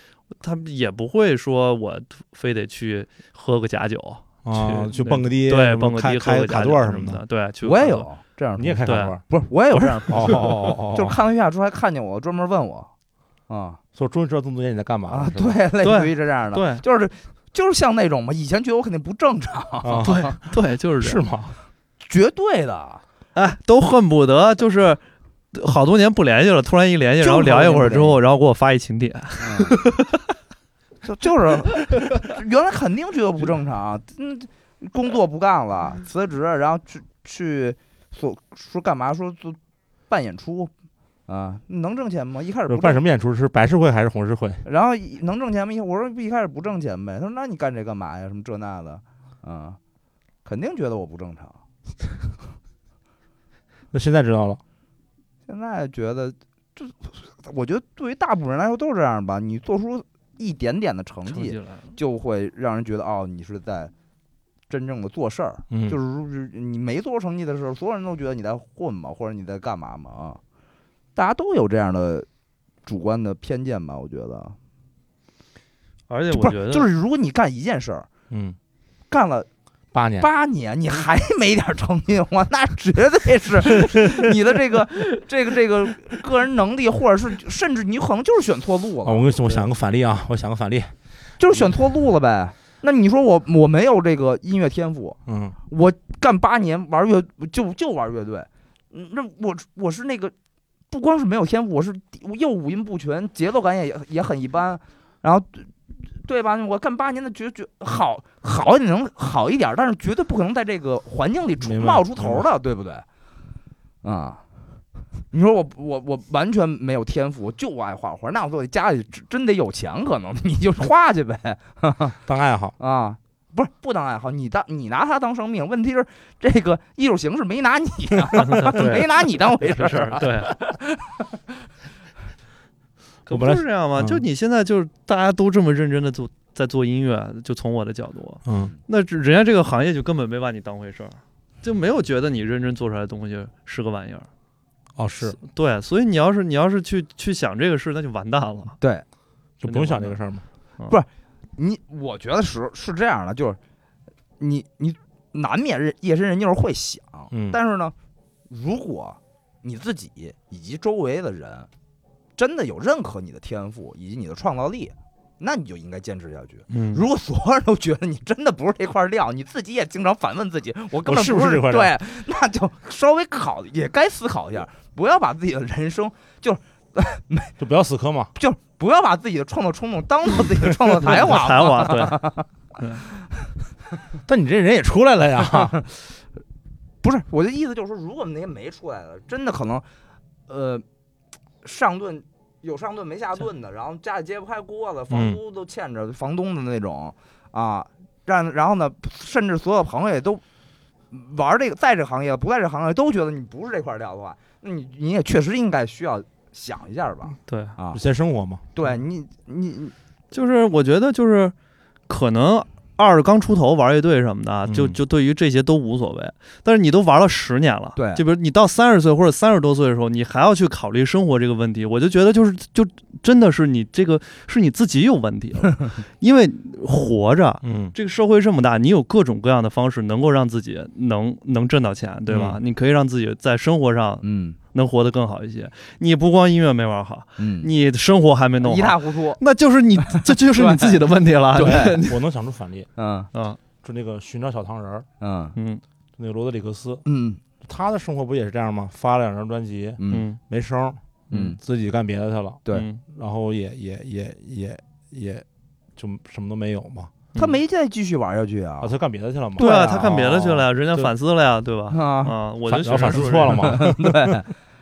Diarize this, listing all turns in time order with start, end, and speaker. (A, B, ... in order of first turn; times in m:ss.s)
0:00.4-0:08.1 A
0:04.4-0:07.2 B
0:07.6-0:12.9 C
0:08.6-0:09.2 B
0:08.9-0:09.2 A
0:10.0-0:11.2 B
0:13.5-0:13.8 C
0:14.0-0:15.6 B
0:15.1-0:20.4 C
0:15.8-0:16.8 A
0:19.8-0:20.4 B
0:20.0-0:21.2 A
0:21.0-0:21.6 B
0:22.0-0:23.0 C
0:23.4-0:25.0 A
0:25.5-0:30.3 A
0:27.2-0:28.2 C
0:29.4-0:29.8 C
0:31.0-0:40.7 C
0:41.3-0:43.0 C
0:42.7-0:44.6 B
0:44.6-0:49.8 C
0:50.4-0:51.6 C
0:53.9-0:54.6 B
0:55.5-1:03.9 C
1:01.3-1:01.9 A
1:04.7-1:10.4 C
1:05.7-1:06.0 B
1:11.2-1:12.3 C
1:12.8-1:14.6 C
1:16.1-1:16.9 A
1:16.3-1:18.1 C
1:18.3-1:18.6 B
1:19.1-1:19.5 C
1:19.9-1:20.3 B
1:20.2-1:29.7 C
1:29.0-1:30.9 B
1:31.4-1:40.3 C
1:35.3-1:35.6 B
1:40.9-1:53.1 C
1:51.6-1:52.5 B
1:54.0-1:54.4 C
1:55.3-2:02.2 C
2:02.3-2:02.8 B
2:02.8-2:11.6 C
2:08.4-2:09.1 A
2:08.8-2:09.0 B
2:09.6-2:10.5 A
2:13.3-2:24.3 A
2:13.3-2:14.2 B
2:18.5-2:18.7 B
2:25.0-2:25.4 B
2:25.4-2:28.8 A
2:28.8-2:29.1 C
2:29.6-2:30.4 B
2:29.6-2:30.2 A
2:30.9-2:33.6 C
2:34.4-2:38.0 C
2:37.3-2:37.6 B
2:38.5-2:41.7 C
2:42.4-2:57.6 C
2:46.7-2:47.0 A
2:51.0-2:52.0 B
2:57.6-2:58.3 B
2:58.4-3:02.5 C
3:01.0-3:02.2 A
3:02.8-3:03.0 A
3:03.1-3:03.5 C
3:04.3-3:05.8 B
3:07.0-3:09.8 C
3:10.5-3:10.8 C
3:11.6-3:20.4 C
3:15.1-3:15.4 B
3:21.1-3:28.0 C
3:27.5-3:27.8 A
3:27.9-3:28.6 B
3:28.8-3:29.9 C
3:30.3-3:31.5 A
3:32.1-4:02.2 A
3:34.7-3:35.0 B
3:38.0-3:38.2 C
3:47.6-3:47.9 B
3:52.3-3:52.6 B
3:54.2-3:54.6 C
3:57.4-3:57.7 C
3:58.6-3:59.4 C
4:00.5-4:01.0 C
4:01.6-4:02.0 C
4:01.7-4:02.9 B
4:03.0-4:03.3 C
4:03.3-4:03.6 A
4:03.8-4:05.1 B
4:05.2-4:05.6 C
4:05.6-4:05.8 A
4:06.2-4:07.0 B
4:07.0-4:07.4 C
4:07.6-4:15.4 B
4:10.0-4:10.3 C
4:10.1-4:10.4 A
4:11.3-4:11.6 C
4:12.7-4:13.0 A
4:16.0-4:17.1 B
4:17.4-4:18.9 C
4:18.8-4:21.1 B
4:19.6-4:20.2 C
4:19.6-4:23.8 A
4:21.9-4:22.4 C
4:22.7-4:24.3 B
4:23.5-4:24.5 C